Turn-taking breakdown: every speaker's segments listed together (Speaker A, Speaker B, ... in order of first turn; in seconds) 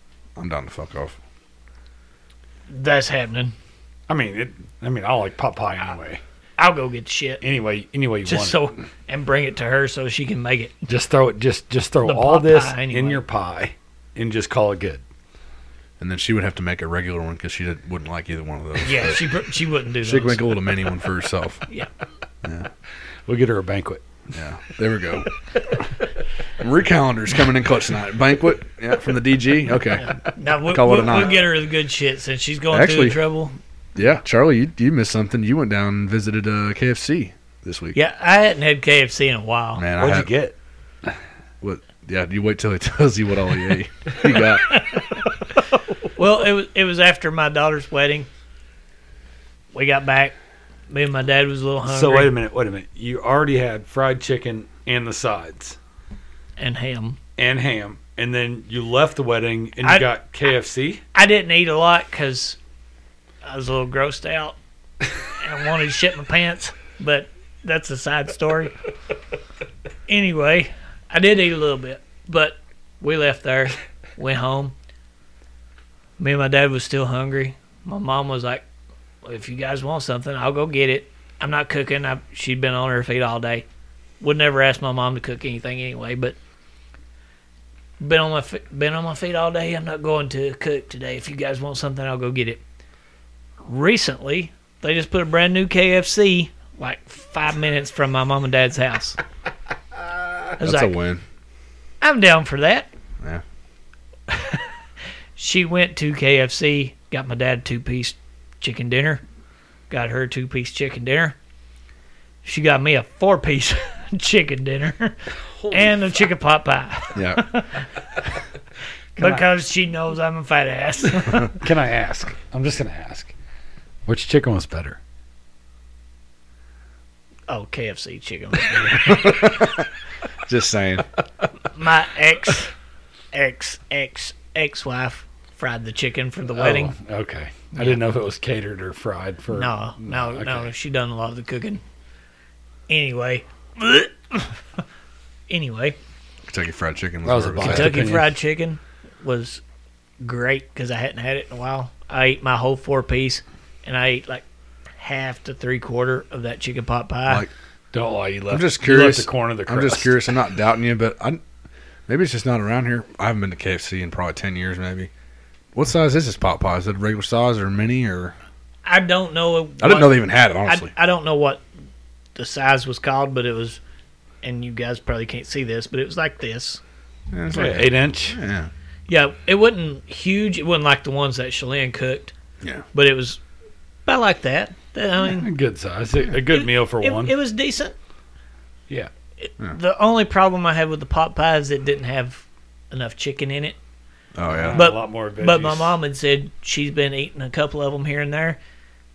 Speaker A: 0.4-1.2, 16.0-19.4, 20.0-21.7, 22.4-22.7, 24.3-25.3, 26.6-30.2, 30.7-31.5, 32.7-33.2, 34.0-38.0, 39.8-40.3, 41.6-45.0, 100.6-101.2, 117.1-117.5, 128.9-129.9, 130.4-131.1, 146.5-148.1, 158.5-161.4, 162.1-165.1, 165.7-168.4, 169.8-170.9, 177.3-178.7, 194.3-194.8
Speaker B: 2.7-3.5, 6.6-7.4, 8.3-10.9, 12.0-13.2, 18.8-20.4, 30.0-33.6, 37.9-39.9, 44.7-45.1, 46.1-48.3, 49.7-50.4, 50.9-52.3, 56.6-57.2, 61.1-62.6, 63.5-64.6, 65.3-68.8, 70.1-74.7, 76.2-78.7, 79.2-83.7, 84.2-86.4, 88.0-92.6, 93.7-99.2, 100.6-100.9, 102.0-102.9, 104.3-104.6, 105.4-109.2, 109.9-111.4, 112.4-118.4, 119.2-121.6, 127.5-129.8, 131.7-132.7, 133.3-136.9, 137.8-138.0, 139.5-141.8, 142.9-144.6, 145.5-146.0, 147.6-149.6, 150.2-154.4, 155.0-157.5, 168.8-171.6, 172.3-173.8, 174.4-176.8, 179.1-182.3, 182.9-183.4, 184.1-185.5, 186.5-187.9, 189.4-193.8, 194.7-198.6
Speaker C: 4.1-6.2, 7.4-8.8, 10.9-15.0, 23.3-24.2, 40.0-41.1, 51.9-55.8, 57.4-61.0, 115.6-116.0, 119.2-119.4, 121.4-123.3, 124.1-125.0, 136.5-140.7, 147.2-148.3, 157.9-160.2, 177.5-178.4, 185.2-187.3, 194.4-196.0